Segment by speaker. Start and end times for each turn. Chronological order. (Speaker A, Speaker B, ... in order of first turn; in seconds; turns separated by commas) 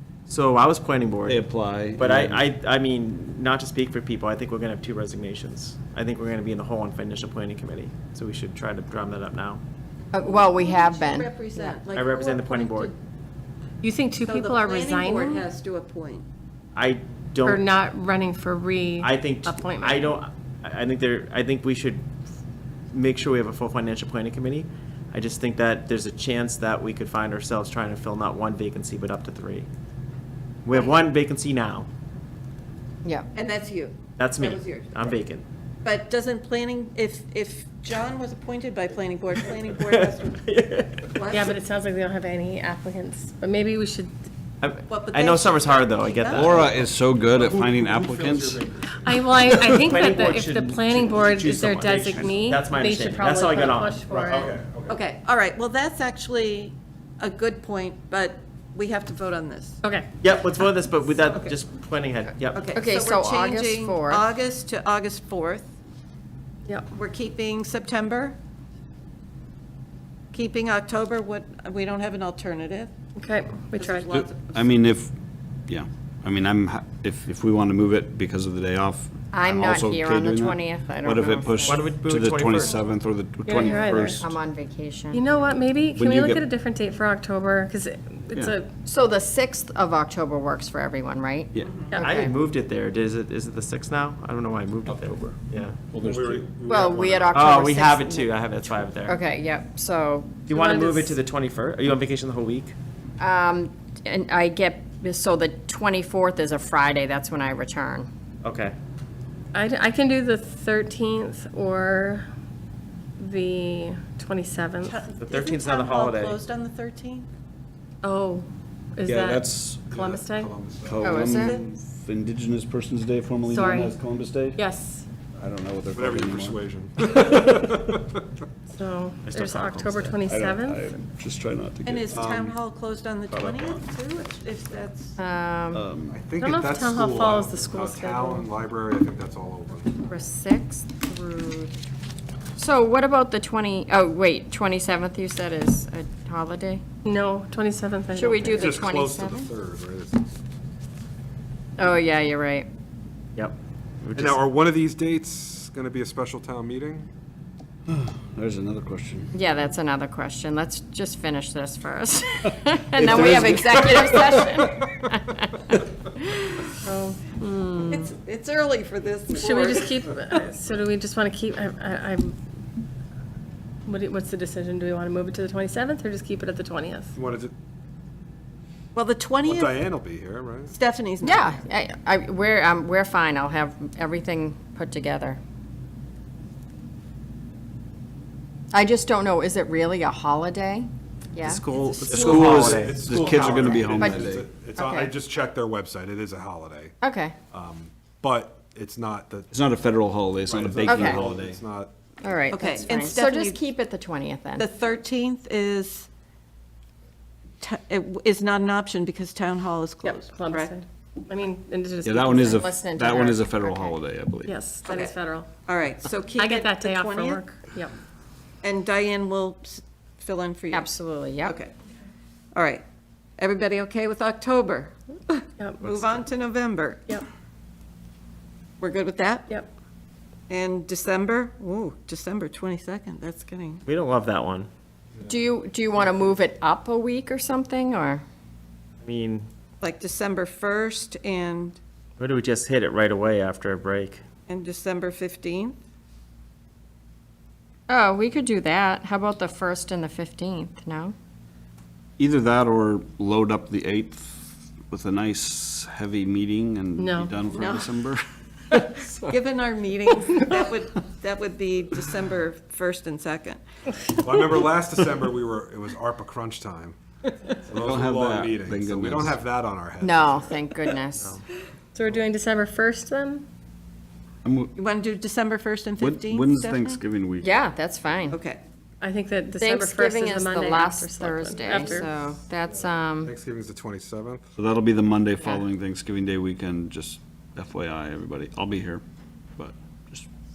Speaker A: 0.3-1.4, Speaker B: 1.3-2.4, Speaker A: 2.0-9.6, Speaker C: 10.1-11.8, Speaker D: 10.2-12.9, Speaker A: 11.9-12.9, Speaker E: 13.8-15.5, Speaker D: 14.2-16.3, Speaker A: 16.8-17.6, Speaker E: 17.4-20.1, Speaker A: 19.0-22.1, Speaker A: 22.9-29.7, Speaker A: 30.6-31.9, Speaker D: 33.4-35.1, Speaker A: 34.2-35.4, Speaker D: 35.8-40.4, Speaker A: 39.4-41.4, Speaker D: 41.1-41.5, Speaker E: 41.3-44.1, Speaker A: 44.6-46.7, Speaker D: 44.9-46.9, Speaker B: 46.3-48.6, Speaker F: 47.2-50.0, Speaker E: 49.0-54.5, Speaker A: 49.6-54.0, Speaker F: 52.1-52.5, Speaker F: 54.1-55.0, Speaker D: 54.9-59.8, Speaker E: 59.8-60.1, Speaker A: 60.2-62.7, Speaker D: 62.5-65.7, Speaker C: 62.7-64.2, Speaker D: 66.9-68.4, Speaker D: 70.3-72.9, Speaker E: 73.2-74.0, Speaker D: 73.8-74.7, Speaker B: 74.1-75.1, Speaker B: 75.7-84.2, Speaker C: 79.3-81.8, Speaker A: 81.7-82.8, Speaker E: 83.5-84.2, Speaker C: 83.6-85.2, Speaker E: 85.1-88.7, Speaker B: 86.0-86.4, Speaker C: 88.8-92.3, Speaker E: 91.9-92.2, Speaker A: 92.0-95.8, Speaker B: 94.9-95.2, Speaker B: 95.9-96.4, Speaker F: 96.0-97.5, Speaker C: 96.7-98.3, Speaker A: 97.3-99.2, Speaker C: 99.0-100.4, Speaker E: 100.5-101.2, Speaker A: 100.5-102.8, Speaker C: 103.2-108.1, Speaker A: 108.4-108.8, Speaker E: 109.5-112.3, Speaker E: 113.2-115.0, Speaker D: 114.9-117.3, Speaker A: 115.2-116.4, Speaker E: 118.0-120.5, Speaker B: 119.0-119.9, Speaker F: 119.9-121.3, Speaker B: 120.8-124.6, Speaker C: 121.0-121.6, Speaker D: 121.3-121.6, Speaker E: 123.5-123.9, Speaker E: 124.6-125.1, Speaker B: 125.4-126.6, Speaker F: 125.9-128.2, Speaker B: 127.1-127.6, Speaker E: 128.7-130.9, Speaker A: 129.2-130.2, Speaker B: 130.3-132.2, Speaker D: 131.8-135.2, Speaker F: 132.1-132.6, Speaker B: 133.3-133.8, Speaker C: 135.2-135.8, Speaker B: 135.7-136.2, Speaker F: 136.1-140.0, Speaker E: 136.4-138.5, Speaker C: 140.1-141.7, Speaker C: 142.6-146.8, Speaker E: 147.0-148.8, Speaker C: 148.2-149.5, Speaker F: 148.5-150.2, Speaker C: 151.8-152.7, Speaker A: 154.1-154.4, Speaker F: 154.2-157.1, Speaker B: 157.9-159.3, Speaker C: 159.3-166.7, Speaker B: 163.0-164.4, Speaker E: 166.8-167.7, Speaker C: 167.4-168.1, Speaker D: 167.9-170.4, Speaker E: 169.3-172.4, Speaker E: 173.9-177.1, Speaker F: 177.2-177.5, Speaker D: 178.9-179.8, Speaker F: 179.4-180.8, Speaker D: 180.7-181.6, Speaker C: 181.2-185.4, Speaker C: 188.7-191.6, Speaker A: 191.4-193.3, Speaker F: 192.1-197.0, Speaker B: 192.1-194.5, Speaker D: 192.1-192.5, Speaker C: 193.3-195.2, Speaker C: 197.0-197.4, Speaker F: 197.5-199.5, Speaker B: 199.5-201.6, Speaker F: 200.5-201.9, Speaker C: 200.9-201.3, Speaker C: 202.2-204.7, Speaker D: 202.5-203.6, Speaker D: 204.6-206.1, Speaker D: 207.6-210.8, Speaker E: 210.0-212.7, Speaker B: 212.1-214.5, Speaker C: 212.4-213.9, Speaker E: 214.4-215.5, Speaker D: 214.8-217.4, Speaker E: 216.4-217.9, Speaker D: 218.6-220.9, Speaker C: 220.7-221.6, Speaker D: 221.4-221.7, Speaker D: 222.5-222.8, Speaker D: 223.4-227.2, Speaker E: 225.6-225.9, Speaker D: 228.8-229.5, Speaker D: 230.5-233.8, Speaker A: 233.8-234.7, Speaker C: 235.2-238.2, Speaker A: 239.0-239.5, Speaker D: 239.8-241.8, Speaker A: 242.2-244.2, Speaker D: 244.5-245.8, Speaker C: 247.9-251.2, Speaker B: 252.2-259.4, Speaker E: 257.0-257.4, Speaker D: 257.5-258.0, Speaker D: 259.3-263.6, Speaker F: 264.2-267.0, Speaker F: 267.7-270.4, Speaker B: 267.8-269.4, Speaker C: 270.0-271.4, Speaker E: 271.9-273.4, Speaker B: 274.4-274.7, Speaker D: 274.8-277.0, Speaker B: 276.0-277.5, Speaker C: 277.4-278.4, Speaker D: 278.3-278.6, Speaker E: 279.0-282.1, Speaker C: 279.6-283.3, Speaker F: 282.7-284.5, Speaker B: 284.6-289.0, Speaker B: 289.6-290.3